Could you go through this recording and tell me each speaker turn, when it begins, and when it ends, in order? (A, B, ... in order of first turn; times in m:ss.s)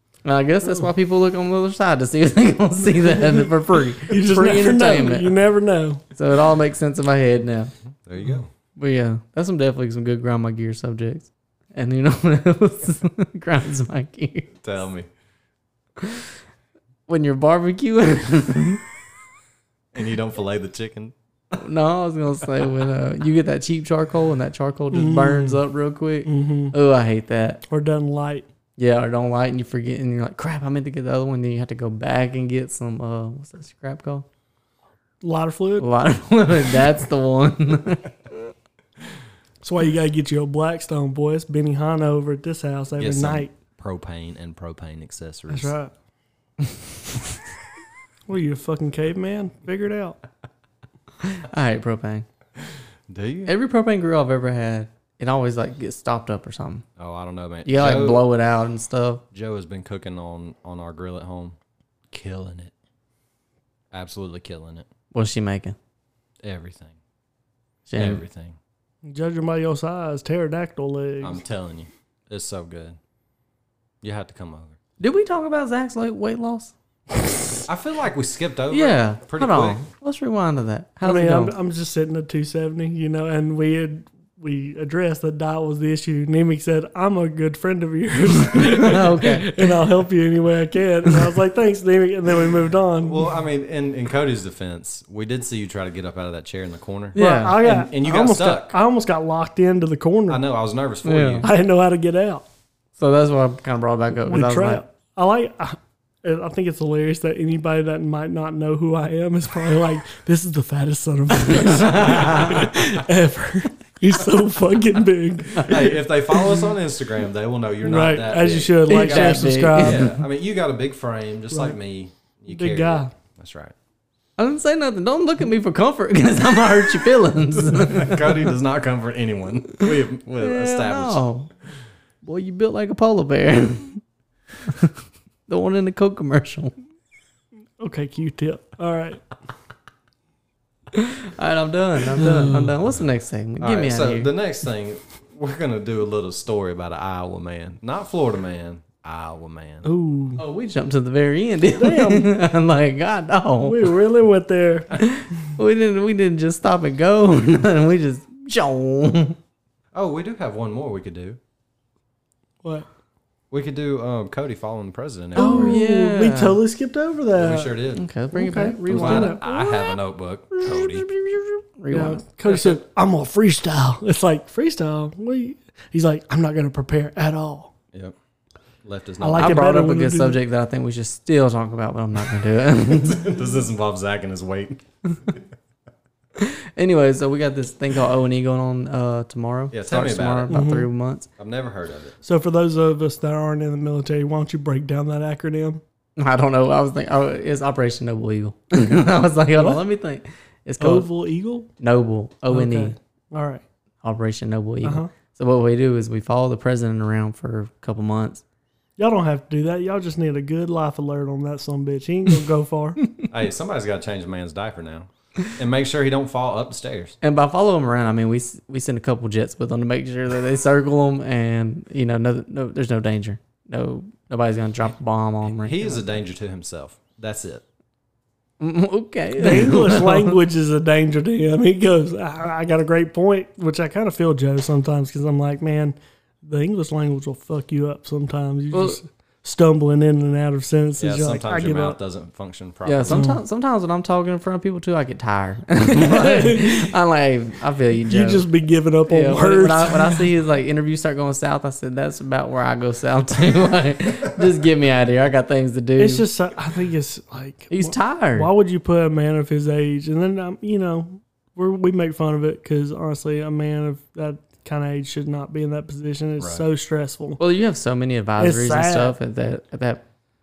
0:00.2-0:05.3 A
0:04.0-0:06.0 B
0:06.1-0:07.7 A
0:08.0-0:08.5 C
0:08.8-0:14.5 A
0:14.6-0:15.1 C
0:16.0-0:16.3 A
0:17.1-0:18.8 A
0:19.9-0:21.1 C
0:21.5-0:27.6 A
0:24.9-0:25.6 B
0:26.3-0:26.7 B
0:27.7-0:28.5 B
0:28.8-0:34.3 A
0:35.2-0:35.9 B
0:35.8-0:38.1 A
0:39.6-0:43.5 B
0:43.0-0:45.7 C
0:45.5-0:45.9 B
0:48.3-0:50.2 B
0:51.2-0:52.3 A
0:53.1-0:53.5 C
0:53.5-0:56.8 A
0:57.0-0:58.3 C
0:57.6-0:59.2 A
0:59.3-1:01.6 C
1:02.1-1:02.7 C
1:03.9-1:04.9 C
1:05.1-1:05.8 A
1:06.4-1:07.0 C
1:07.9-1:08.2 A
1:08.0-1:08.6 C
1:09.1-1:11.4 B
1:11.2-1:13.0 C
1:14.0-1:14.8 C
1:15.0-1:16.7 A
1:17.7-1:19.8 C
1:18.7-1:21.5 A
1:21.0-1:33.3 B
1:28.6-1:29.6 A
1:33.0-1:38.8 C
1:37.2-1:37.6 A
1:37.2-1:40.4 B
1:40.3-1:41.5 C
1:41.0-1:41.5 A
1:41.4-1:42.4 B
1:43.0-1:44.8 A
1:44.3-1:56.0 B
1:51.5-1:52.7 A
1:55.6-2:03.7 C
1:57.8-2:00.2 B
1:58.9-2:00.2 A
2:02.5-2:03.1 B
2:04.4-2:08.4 A
2:07.7-2:11.2 C
2:10.4-2:11.5 A
2:12.2-2:14.0 A
2:14.7-2:14.9 A
2:15.5-2:16.7 A
2:17.8-2:19.2 B
2:20.9-2:24.3 A
2:22.2-2:22.7 B
2:23.6-2:29.9 C
2:29.8-2:30.4 B
2:30.4-2:33.9 A
2:31.8-2:32.3 B
2:33.6-2:34.9 B
2:35.0-2:39.4 A
2:39.9-2:41.4 C
2:43.5-2:45.8 C
2:45.4-2:46.6 A
2:45.4-2:47.8 B
2:47.4-2:48.1 C
2:48.0-2:49.5 A
2:48.3-2:49.5 B
2:48.9-2:51.1 C
2:50.6-2:52.2 A
2:51.9-2:57.7 B
2:58.8-2:59.6 C
2:59.2-3:00.4 B
2:59.4-3:03.4 A
3:03.0-3:05.4 C
3:06.4-3:11.3 A
3:09.7-3:10.6 C
3:10.5-3:10.9 B
3:11.4-3:12.2 C
3:12.2-3:15.8 B
3:16.2-3:21.1 A
3:20.8-3:21.7 B
3:21.8-3:23.0 A
3:22.5-3:23.6 B
3:24.0-3:28.4 A
3:24.8-3:25.1 B
3:29.0-3:33.0 B
3:33.3-3:37.2 C
3:37.2-3:46.2 A
3:45.5-3:47.6 C
3:48.6-3:50.4 A
3:49.4-4:02.0 B
3:58.7-3:59.0 A
4:01.0-4:03.3 C
4:02.8-4:08.5 A
4:03.1-4:03.4 B
4:05.9-4:06.9 B
4:08.1-4:10.3 B
4:09.1-4:16.3 A
4:16.0-4:27.4 B
4:17.7-4:18.5 A
4:26.4-4:26.6 C
4:27.4-4:30.0 A
4:28.4-4:29.2 B